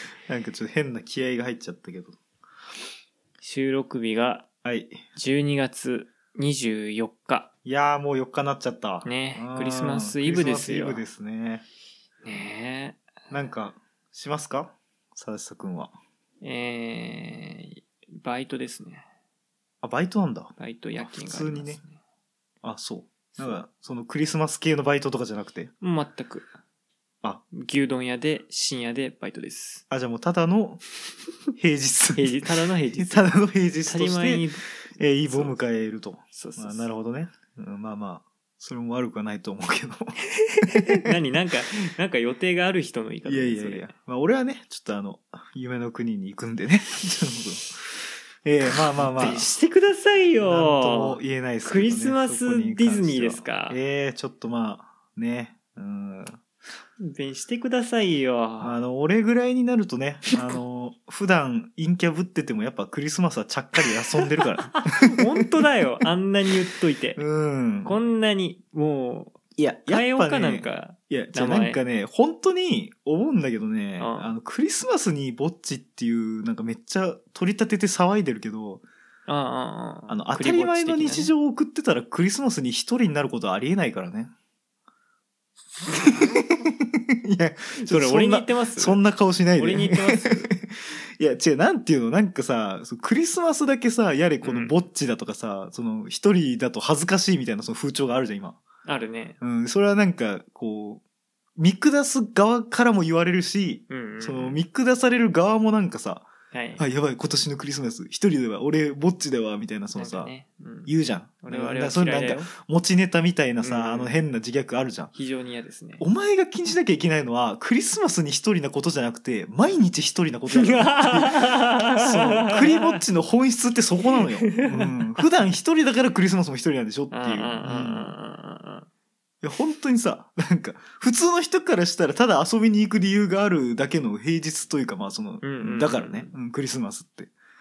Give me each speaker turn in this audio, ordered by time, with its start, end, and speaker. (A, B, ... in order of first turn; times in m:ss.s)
0:00.3-0:02.2 A
0:03.4-0:04.4 B
0:04.6-0:05.0 A
0:05.2-0:07.5 B
0:07.6-0:11.6 A
0:09.0-0:11.0 B
0:12.2-0:13.1 B
0:13.3-0:15.9 A
0:16.4-0:19.0 B
0:19.8-0:21.8 A
0:20.6-0:22.0 B
0:22.6-0:25.7 A
0:25.8-0:26.5 B
0:27.5-0:29.8 B
0:29.9-0:30.8 A
0:31.5-0:34.4 A
0:32.1-0:34.6 B
0:35.0-0:41.1 A
0:35.3-0:35.5 B
0:36.3-0:36.8 B
0:40.4-0:43.9 B
0:43.2-0:49.4 A
0:49.0-0:53.8 B
0:50.4-0:56.4 A
0:57.0-0:58.8 B
0:58.6-1:05.6 A
1:04.2-1:07.2 B
1:07.2-1:08.0 A
1:07.8-1:11.8 B
1:09.6-1:18.8 A
1:14.0-1:14.3 B
1:19.3-1:21.3 B
1:20.1-1:24.3 A
1:25.9-1:38.6 A
1:25.9-1:26.3 B
1:27.8-1:29.0 B
1:29.6-1:30.5 B
1:34.4-1:34.7 B
1:38.8-1:39.4 B
1:39.4-1:41.0 A
1:41.6-1:50.3 A
1:43.9-1:44.6 B
1:46.5-1:46.8 B
1:49.9-1:50.9 B
1:50.8-1:55.1 A
1:51.4-1:52.5 B
1:53.6-1:54.1 B
1:55.1-1:56.0 B
1:56.0-2:08.1 A
2:00.5-2:03.0 B
2:04.0-2:05.2 B
2:07.1-2:08.9 B
2:09.4-2:17.3 A
2:15.4-2:16.3 B